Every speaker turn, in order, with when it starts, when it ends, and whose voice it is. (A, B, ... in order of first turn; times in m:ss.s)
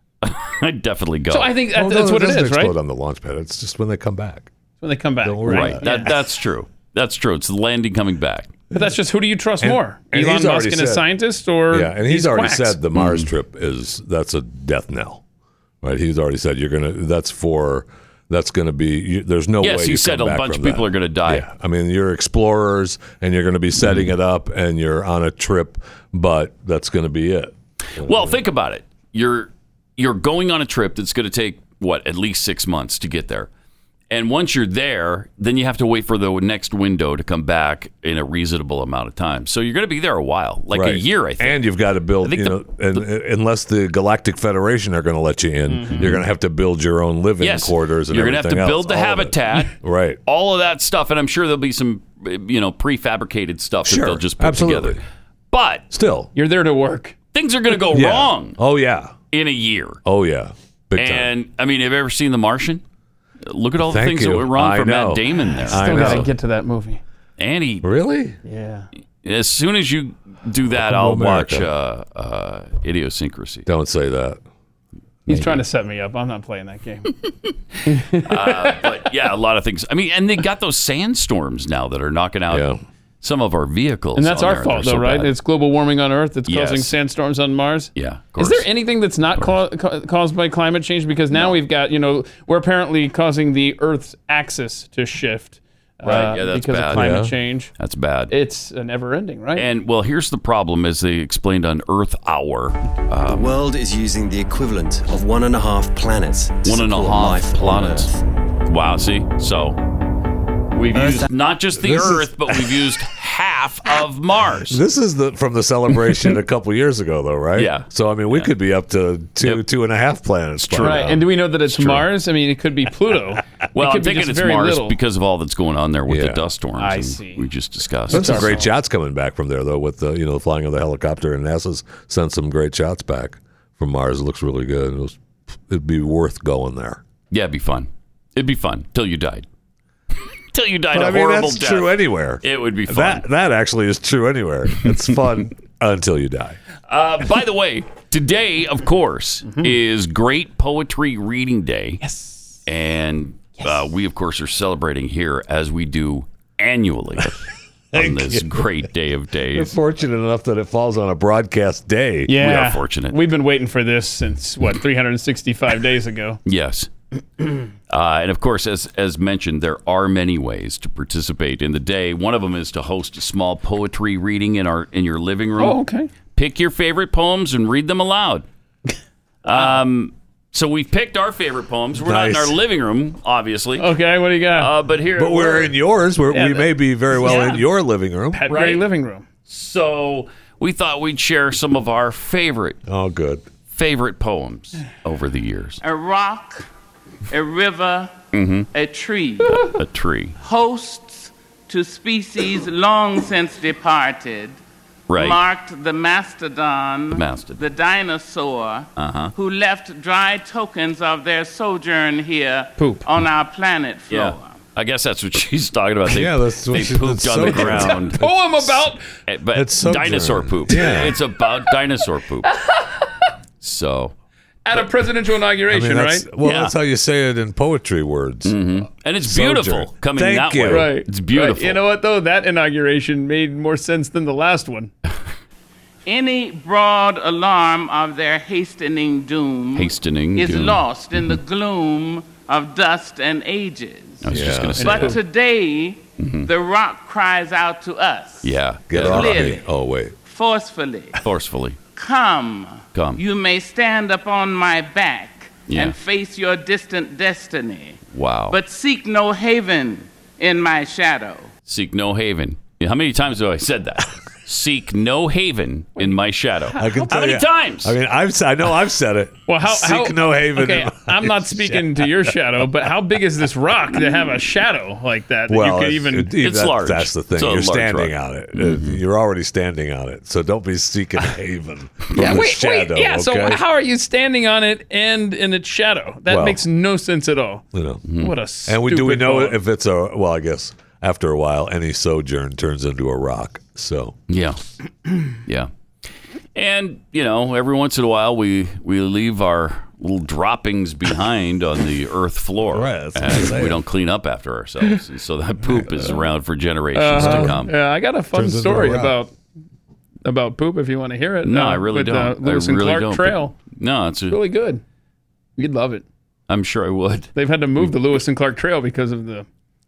0:00.2-0:01.6 A
0:01.3-0:02.8 B
0:01.7-0:04.5 C
0:04.8-0:06.2 B
0:05.2-0:06.1 C
0:05.5-0:08.6 A
0:08.7-0:12.8 B
0:09.6-0:11.0 C
0:11.7-0:15.2 C
0:13.0-0:13.3 A
0:15.8-0:28.4 C
0:19.6-0:21.5 A
0:23.8-0:24.1 A
0:28.0-0:33.5 A
0:34.1-0:41.7 A
0:40.7-0:50.2 C
0:42.2-0:43.0 A
0:45.7-0:46.2 B
0:46.0-0:46.2 A
0:47.4-0:55.0 A
0:53.8-0:55.0 C
0:55.5-0:55.9 A
0:55.9-0:56.3 C
0:56.4-0:57.2 B
0:57.3-0:58.6 A
0:57.9-0:59.2 C
0:59.3-1:00.0 A
1:00.1-1:01.3 C
1:01.0-1:02.8 A
1:03.5-1:06.3 A
1:03.8-1:06.3 C
1:05.7-1:07.0 B
1:07.4-1:07.9 A
1:07.8-1:08.4 C
1:08.4-1:08.9 B
1:09.2-1:13.7 A
1:10.7-1:11.7 C
1:13.7-1:14.4 C
1:15.3-1:17.1 B
1:15.3-1:15.6 A
1:17.9-1:18.8 B
1:18.3-1:22.7 A
1:22.5-1:22.8 C
1:23.2-1:25.3 A
1:24.2-1:37.7 B
1:26.5-1:26.9 A
1:28.0-1:28.7 A
1:36.0-1:37.2 A
1:36.9-1:37.3 C
1:37.8-1:38.3 A
1:38.3-1:39.7 B
1:39.6-1:43.6 A
1:43.3-1:48.2 D
1:46.6-1:48.1 A
1:48.7-1:49.8 A
1:50.7-1:54.8 A
1:51.8-1:52.7 C
1:54.7-2:01.2 C
1:57.6-1:58.5 A
2:00.7-2:01.2 A
2:00.8-2:05.0 B
2:01.8-2:02.0 C
2:03.7-2:08.6 A
2:06.1-2:06.4 C
2:06.8-2:07.5 B
2:08.1-2:08.7 B
2:08.1-2:17.0 C
2:17.3-2:19.5 A
2:20.5-2:23.3 A
2:20.9-2:26.6 C
2:26.9-2:32.0 A
2:32.0-2:32.6 B
2:32.7-2:39.8 A
2:37.9-2:38.7 C
2:39.5-2:42.3 C
2:42.3-2:46.4 B
2:42.3-2:43.2 A
2:46.4-2:46.9 A
2:47.9-2:55.8 A
2:55.6-2:56.1 B
2:56.4-2:58.4 A
2:59.4-3:03.9 A
2:59.5-2:59.8 B
3:02.0-3:02.6 C
3:03.8-3:04.7 B
3:04.6-3:05.7 A
3:05.2-3:08.4 C
3:06.3-3:07.6 B
3:08.3-3:09.2 B
3:08.5-3:08.8 A
3:09.5-3:12.8 A
3:12.9-3:13.5 C
3:13.7-3:15.8 A
3:15.8-3:16.7 E
3:17.3-3:18.2 E
3:18.3-3:18.7 A
3:18.7-3:19.7 E
3:19.5-3:20.4 A
3:20.4-3:24.6 E
3:25.1-3:25.4 A
3:25.2-3:34.6 E
3:27.1-3:27.6 A
3:29.0-3:29.3 A
3:32.8-3:33.1 B
3:34.1-3:38.2 A
3:36.1-3:38.3 C
3:37.5-3:39.1 B
3:39.3-3:42.5 A
3:39.5-3:41.2 C
3:42.5-3:43.0 B
3:43.6-3:44.1 A
3:44.7-3:46.3 B
3:45.7-3:48.6 C
3:46.4-3:46.7 A
3:48.4-3:51.8 A
3:49.2-3:50.9 C
3:50.7-3:54.9 B
3:56.1-4:09.6 E
3:59.7-4:01.4 A
4:04.2-4:05.2 A
4:04.3-4:05.0 C
4:04.8-4:05.2 B
4:06.2-4:06.5 A
4:08.4-4:09.6 A
4:08.9-4:10.2 C
4:10.2-4:11.2 E
4:11.2-4:11.8 A
4:12.0-4:18.0 E
4:12.9-4:13.2 A
4:15.7-4:16.0 A
4:18.1-4:18.6 A
4:18.5-4:21.5 E
4:21.7-4:28.0 A
4:26.7-4:27.1 B
4:26.8-4:31.9 C
4:29.5-4:36.3 B
4:35.5-4:43.6 C
4:36.4-4:39.0 A
4:42.1-4:49.6 B
4:46.3-4:46.6 C
4:47.7-4:48.0 C
4:48.0-4:48.3 A
4:48.7-4:54.2 C
4:54.3-4:54.6 A
4:55.4-4:55.7 A
4:56.6-5:07.7 A
5:02.7-5:03.8 C
5:07.0-5:09.3 B
5:07.1-5:07.6 C
5:08.3-5:09.2 C
5:10.2-5:13.6 B
5:11.4-5:14.4 A
5:14.3-5:14.8 B
5:15.6-5:16.1 B
5:16.5-5:17.9 A
5:17.4-5:19.5 B